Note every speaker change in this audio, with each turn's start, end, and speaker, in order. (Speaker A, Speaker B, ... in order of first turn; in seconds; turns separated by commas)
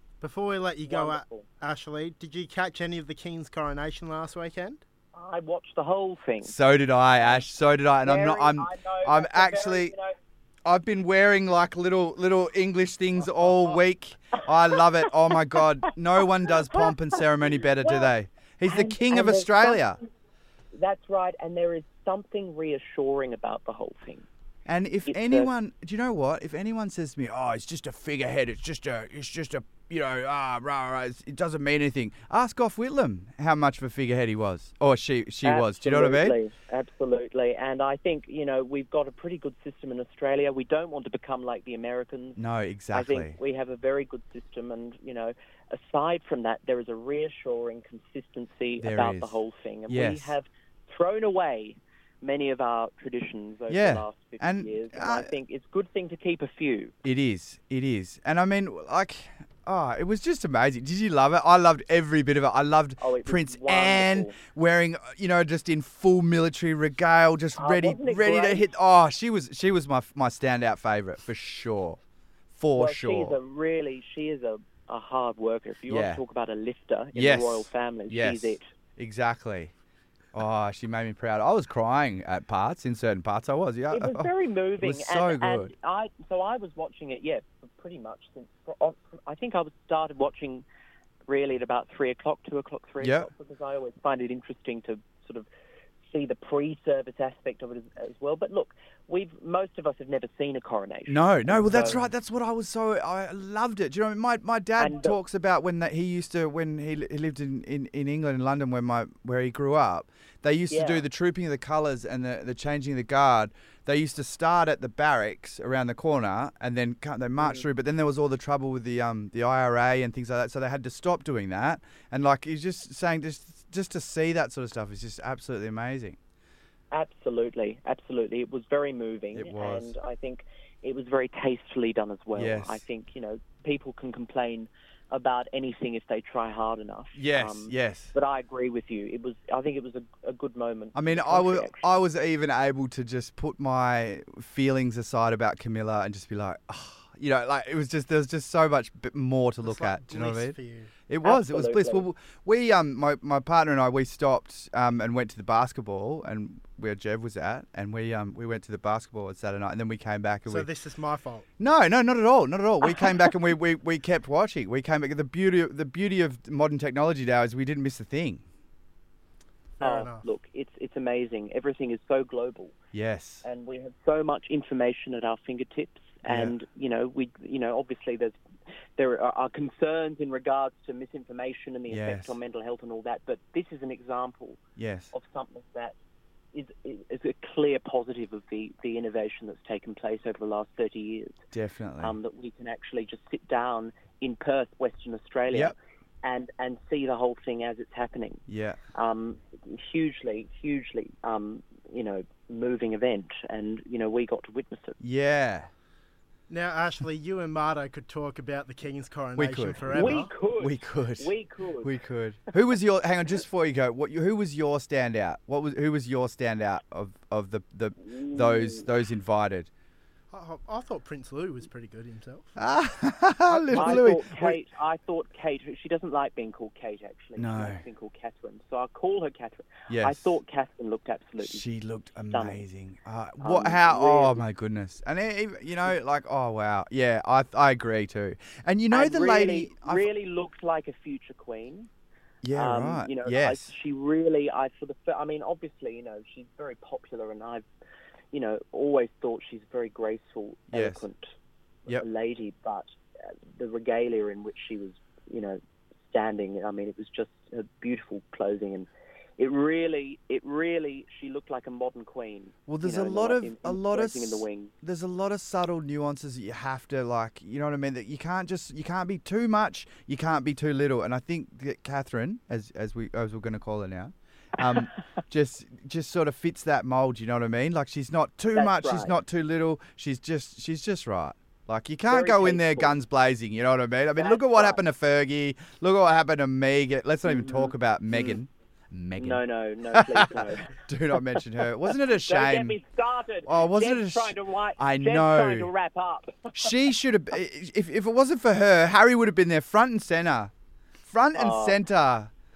Speaker A: 0.2-4.8, Speaker B: 0.9-1.5, Speaker B: 5.1-6.5, Speaker C: 6.4-9.9, Speaker B: 7.2-7.5, Speaker B: 8.0-10.1, Speaker C: 10.7-20.0, Speaker B: 16.5-16.9, Speaker B: 17.8-18.1, Speaker B: 18.6-19.9, Speaker B: 20.7-24.3, Speaker C: 24.7-36.4, Speaker B: 25.1-25.5, Speaker B: 35.5-42.4, Speaker C: 42.4-43.4, Speaker B: 42.9-56.9, Speaker C: 48.8-49.4, Speaker C: 49.9-50.4, Speaker C: 53.7-55.3, Speaker C: 57.0-72.0, Speaker B: 63.0-64.4, Speaker B: 67.6-68.7, Speaker C: 72.6-73.4, Speaker B: 72.8-78.6, Speaker C: 75.9-76.2, Speaker C: 77.1-79.7, Speaker C: 80.3-84.3, Speaker B: 83.9-90.7, Speaker C: 84.8-85.7, Speaker B: 91.3-95.5, Speaker C: 93.0-93.3, Speaker B: 96.0-102.1, Speaker C: 101.1-126.2, Speaker B: 104.8-105.2, Speaker B: 110.7-111.1, Speaker B: 117.4-117.7, Speaker B: 126.9-141.9, Speaker C: 129.3-129.9, Speaker C: 132.3-132.8, Speaker C: 137.2-138.1, Speaker C: 140.9-160.7, Speaker A: 149.6-150.9, Speaker B: 151.2-152.1, Speaker A: 160.5-161.5, Speaker C: 161.6-168.4, Speaker A: 169.8-170.2, Speaker B: 169.8-172.8, Speaker C: 172.9-173.4, Speaker B: 173.4-178.4, Speaker C: 176.3-176.6, Speaker B: 179.0-184.6, Speaker C: 181.9-182.4, Speaker C: 184.8-185.1, Speaker B: 185.1-185.9, Speaker B: 186.5-191.4, Speaker C: 191.5-192.2, Speaker B: 192.0-198.4, Speaker C: 198.5-198.8, Speaker B: 198.9-205.0, Speaker C: 205.0-205.7, Speaker A: 206.5-210.3, Speaker C: 209.4-219.7, Speaker B: 209.9-211.9, Speaker B: 218.1-218.8, Speaker A: 220.3-222.6, Speaker C: 222.6-224.6, Speaker A: 223.5-224.1, Speaker B: 223.7-231.7, Speaker C: 227.4-227.8, Speaker C: 229.9-230.4, Speaker C: 231.4-240.1, Speaker B: 232.3-232.6, Speaker B: 233.4-234.4, Speaker B: 238.9-241.9, Speaker C: 242.4-243.7, Speaker B: 242.5-247.7, Speaker B: 248.3-251.3, Speaker C: 250.7-251.0, Speaker B: 251.9-264.7, Speaker C: 262.7-292.8, Speaker B: 278.5-279.1, Speaker B: 282.1-283.0, Speaker B: 284.2-284.8, Speaker B: 287.2-288.4, Speaker B: 289.2-290.8, Speaker B: 291.9-296.7, Speaker C: 293.5-295.7, Speaker C: 296.5-300.5, Speaker C: 301.1-302.3, Speaker B: 301.4-301.8